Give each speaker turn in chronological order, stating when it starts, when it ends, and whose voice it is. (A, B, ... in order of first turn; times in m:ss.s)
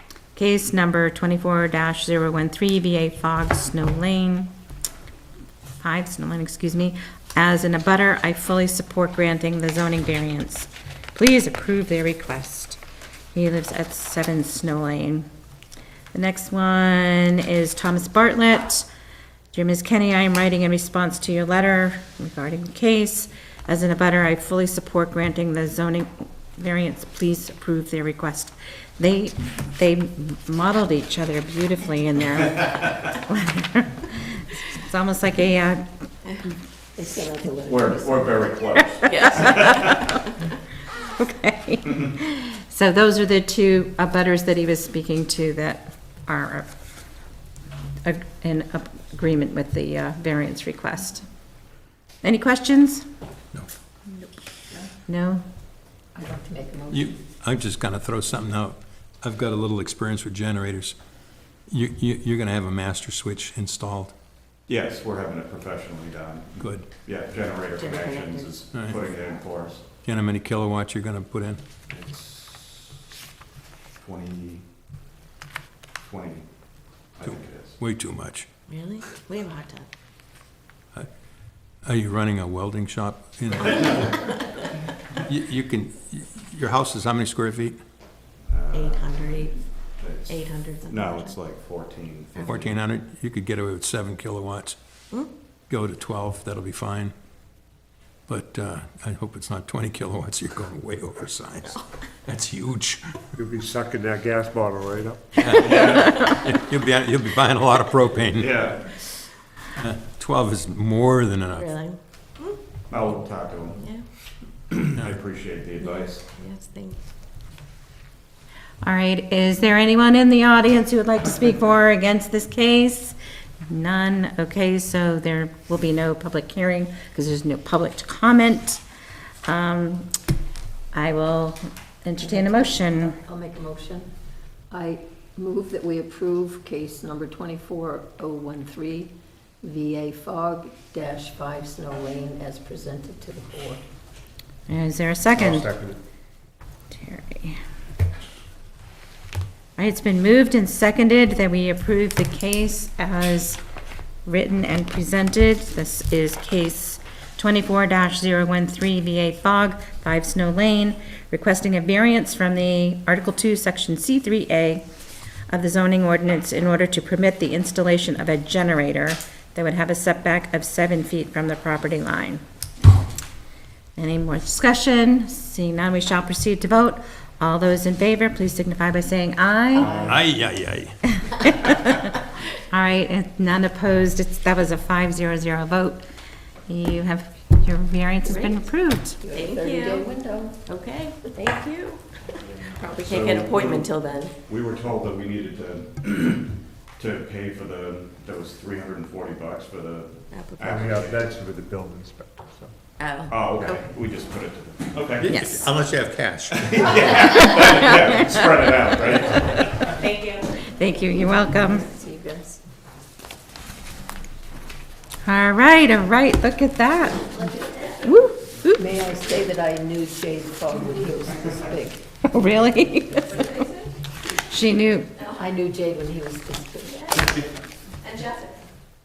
0:00.4-0:04.5 A
0:05.8-0:12.8 A
0:13.3-0:15.3 A
0:16.1-0:18.9 A
0:19.5-0:35.8 A
0:37.0-0:38.8 B
0:37.7-0:40.1 C
0:39.1-0:39.7 D
0:39.2-0:40.1 A
0:41.0-0:46.7 A
0:48.0-0:51.3 A
0:52.2-0:53.0 A
0:55.1-0:55.4 A
0:56.2-0:57.2 B
0:56.9-1:01.0 E
1:01.7-1:04.2 E
1:04.7-1:09.9 C
1:06.6-1:06.9 E
1:07.8-1:08.6 D
1:08.7-1:09.0 E
1:10.0-1:11.6 E
1:11.9-1:13.0 C
1:14.0-1:14.7 C
1:16.0-1:17.8 C
1:17.2-1:18.5 E
1:18.7-1:19.9 D
1:21.8-1:24.4 E
1:25.2-1:27.8 E
1:28.4-1:32.8 C
1:28.7-1:31.4 D
1:32.4-1:34.8 E
1:35.7-1:37.1 E
1:38.3-1:43.3 E
1:43.4-1:45.2 F
1:45.4-1:48.6 E
1:45.6-1:46.2 C
1:48.4-1:48.9 C
1:49.8-1:51.7 E
1:51.6-1:52.6 D
1:52.9-1:53.8 C
1:53.8-1:54.1 D
1:54.7-1:56.2 C
1:55.8-1:57.0 D
1:58.8-2:08.8 A
2:09.5-2:10.1 A
2:10.9-2:13.2 A
2:12.2-2:14.1 B
2:14.7-2:23.8 B
2:24.7-2:25.7 A
2:25.4-2:26.0 F
2:26.9-2:27.6 A
2:29.8-2:33.6 A
2:34.2-2:44.8 A
2:45.5-2:52.4 A
2:54.0-3:00.1 A
2:59.8-3:00.2 B
2:59.8-3:00.2 F
3:00.0-3:01.2 E
3:01.4-3:02.1 A
3:02.7-3:06.0 A
3:06.7-3:09.2 A
3:09.2-3:10.6 B
3:09.3-3:10.1 D
3:10.7-3:12.0 D
3:12.6-3:14.3 D
3:13.1-3:13.9 C
3:14.4-3:21.2 C
3:20.3-3:21.0 D
3:20.6-3:22.7 F
3:23.0-3:23.8 D
3:23.3-3:25.3 C
3:25.2-3:27.0 E
3:25.3-3:25.7 A
3:26.5-3:29.9 C
3:29.8-3:30.5 D
3:30.7-3:31.9 A
3:31.0-3:32.6 B
3:35.2-3:37.3 A
3:38.0-3:38.8 A
3:38.8-3:42.0 B
3:42.3-3:43.6 A
3:43.4-3:43.8 D
3:44.3-3:45.1 A
3:45.3-3:47.6 B
3:48.0-3:48.5 D